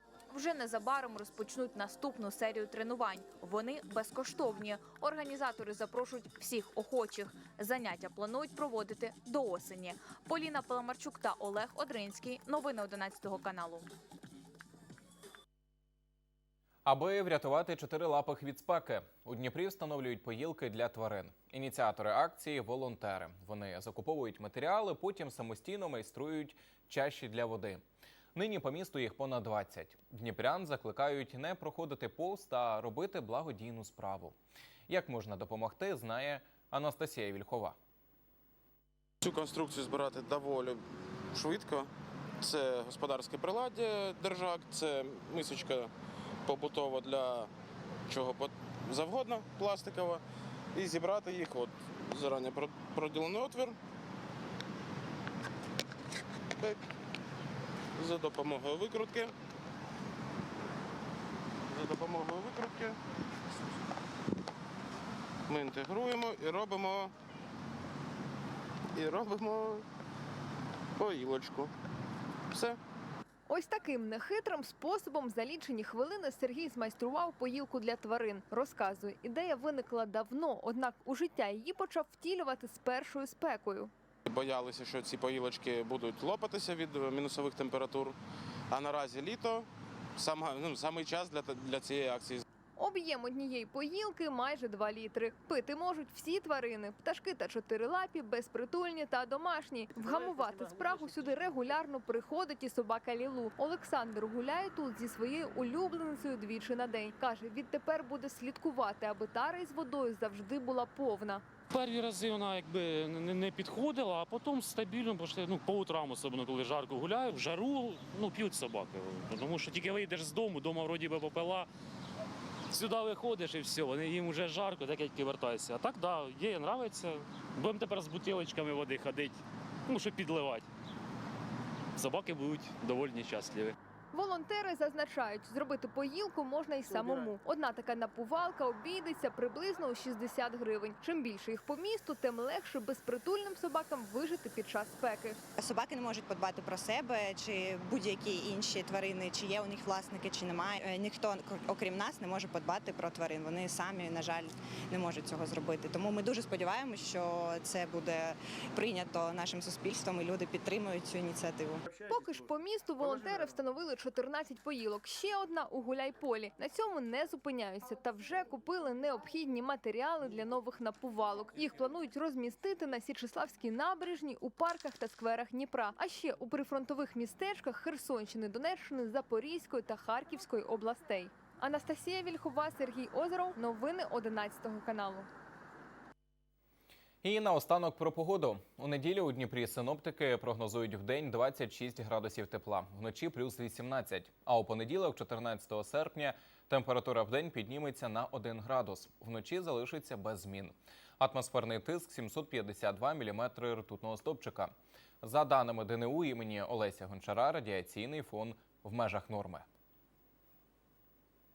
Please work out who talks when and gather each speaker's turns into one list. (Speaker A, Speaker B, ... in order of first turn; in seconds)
Speaker A: 0.3-13.9
Speaker B: 16.9-27.8, 28.4-34.4, 34.9-37.8, 187.2-209.6
Speaker C: 39.2-40.8, 41.3-41.9, 42.4-45.9, 46.5-47.5, 48.1-50.2, 50.8-53.8, 58.0-59.3, 61.7-63.0, 65.5-67.1, 69.0-69.8, 71.0-71.7, 72.5-72.8, 84.2-88.2, 88.7-92.4
Speaker D: 73.5-83.9, 92.8-111.4, 134.1-145.4, 162.1-185.3
Speaker E: 111.7-121.7, 122.7-130.7, 132.0-133.8
Speaker F: 145.6-161.8